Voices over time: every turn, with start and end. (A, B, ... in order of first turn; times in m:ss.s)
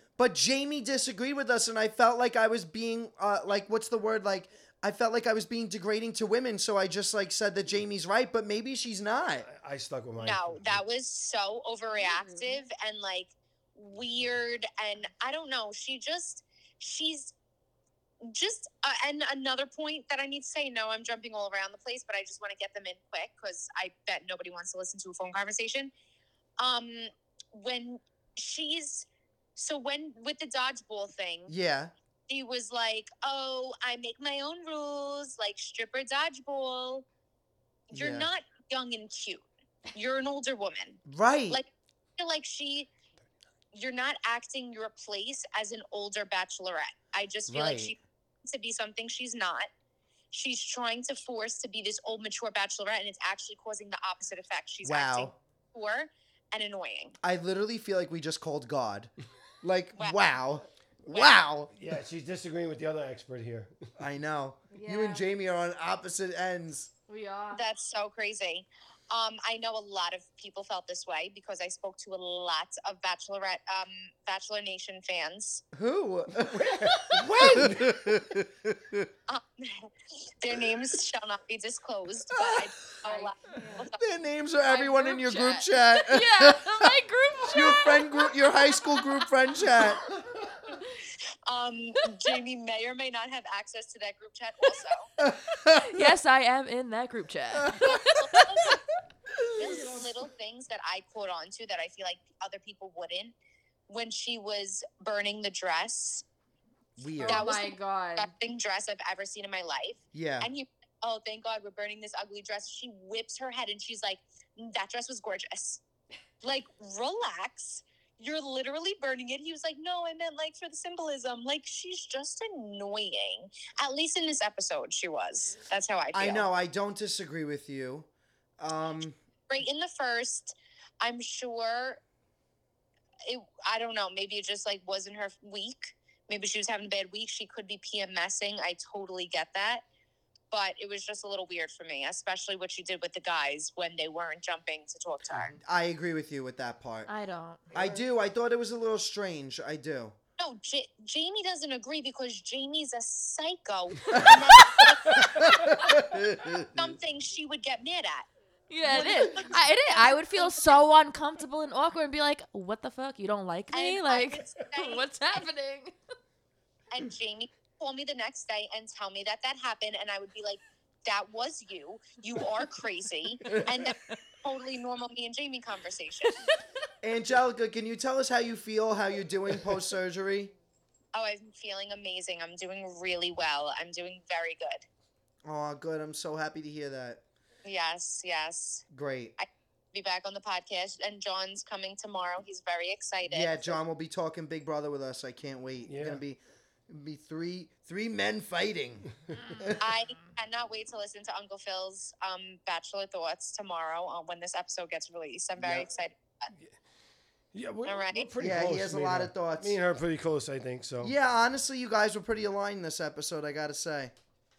0:00.2-0:09.5 A
0:09.4-0:10.8 B
0:10.2-0:17.3 C
0:18.2-0:25.9 C
0:26.6-0:31.5 C
0:31.5-0:31.9 A
0:32.3-0:37.0 C
0:37.9-0:42.9 C
0:37.9-0:38.3 A
0:41.0-0:41.6 A
0:43.7-0:49.7 C
0:47.5-0:48.0 A
0:50.3-0:57.2 C
0:54.8-0:55.3 A
0:57.2-0:59.1 A
0:59.6-1:01.7 A
1:01.1-1:01.4 C
1:01.7-1:03.9 B
1:04.0-1:06.9 A
1:04.7-1:05.2 D
1:07.1-1:07.6 D
1:07.5-1:15.6 C
1:15.7-1:19.1 A
1:16.3-1:18.2 B
1:19.3-1:24.0 C
1:22.4-1:22.7 A
1:23.0-1:23.9 D
1:24.0-1:26.9 A
1:24.6-1:29.2 D
1:27.4-1:30.1 A
1:30.7-1:35.1 C
1:35.2-1:36.1 A
1:35.5-1:38.9 D
1:37.9-1:38.8 C
1:39.4-1:43.3 C
1:43.9-1:46.2 C
1:47.0-1:47.5 A
1:47.1-1:48.3 D
1:47.3-1:55.8 C
1:50.1-1:50.5 A
1:56.4-2:06.4 C
2:06.1-2:08.1 A
2:08.6-2:09.2 A
2:09.5-2:12.0 C
2:13.2-2:19.8 C
2:20.5-2:25.6 C
2:25.5-2:27.1 A
2:27.1-2:27.7 D
2:27.7-2:30.1 A
2:30.4-2:38.3 C
2:34.1-2:35.9 D
2:34.2-2:34.4 A
2:35.2-2:36.9 A
2:38.7-2:45.9 D
2:38.8-2:40.8 C
2:39.0-2:39.4 A
2:43.7-2:45.5 C
2:46.9-2:56.5 C
2:57.0-3:00.5 A
3:01.1-3:04.8 C
3:05.4-3:07.2 A
3:07.6-3:08.8 C
3:08.9-3:09.4 A
3:09.4-3:13.8 C
3:13.2-3:19.9 A
3:15.8-3:16.2 B
3:19.3-3:20.3 D
3:19.8-3:26.5 C
3:25.6-3:25.8 B
3:27.5-3:31.1 B
3:27.8-3:28.3 C
3:28.4-3:29.8 A
3:31.0-3:34.1 A